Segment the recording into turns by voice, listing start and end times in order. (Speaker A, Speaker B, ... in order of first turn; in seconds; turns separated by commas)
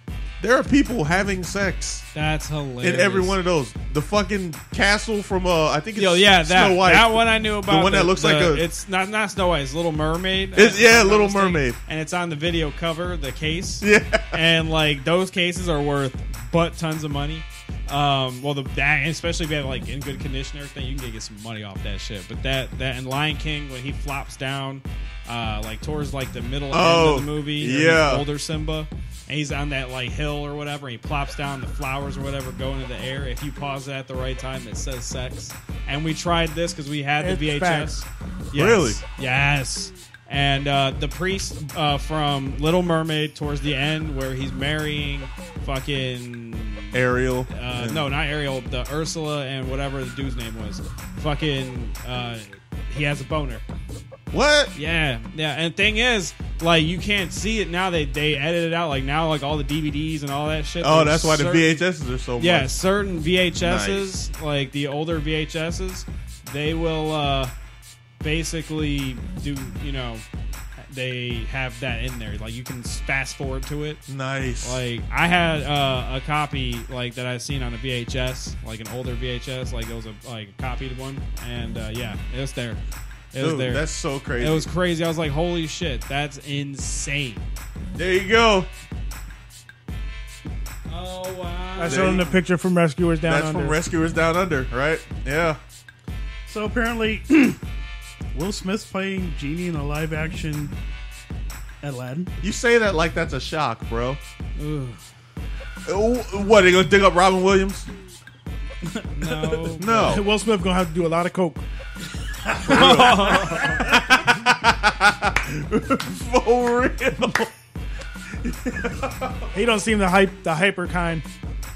Speaker A: 0.4-2.1, Speaker B: 2.1-3.4, Speaker A: 2.8-8.7, Speaker B: 6.0-47.0, Speaker A: 10.6-11.8, Speaker A: 13.8-14.3, Speaker A: 26.7-28.3, Speaker C: 37.2-37.9, Speaker A: 38.5-39.0, Speaker A: 46.9-48.1, Speaker B: 47.5-53.6, Speaker A: 54.3-54.7, Speaker B: 54.8-61.8, Speaker A: 60.8-62.8, Speaker B: 62.4-67.5, Speaker A: 63.6-64.1, Speaker B: 68.2-70.2, Speaker B: 70.8-74.0, Speaker A: 74.1-74.8, Speaker B: 74.6-82.8, Speaker B: 83.3-83.9, Speaker A: 83.4-84.7, Speaker B: 84.4-87.5, Speaker A: 88.0-88.7, Speaker B: 90.9-92.4, Speaker C: 91.8-93.8, Speaker A: 91.8-92.3, Speaker A: 93.2-95.6, Speaker C: 96.5-97.6, Speaker C: 98.3-100.8, Speaker C: 101.8-102.3, Speaker A: 102.4-104.2, Speaker B: 104.6-105.0, Speaker A: 105.9-107.9, Speaker C: 108.9-111.6, Speaker B: 109.2-110.1, Speaker A: 109.8-110.2, Speaker C: 112.5-113.4, Speaker B: 112.7-113.8, Speaker A: 112.7-117.5, Speaker A: 118.3-119.5, Speaker C: 119.5-121.3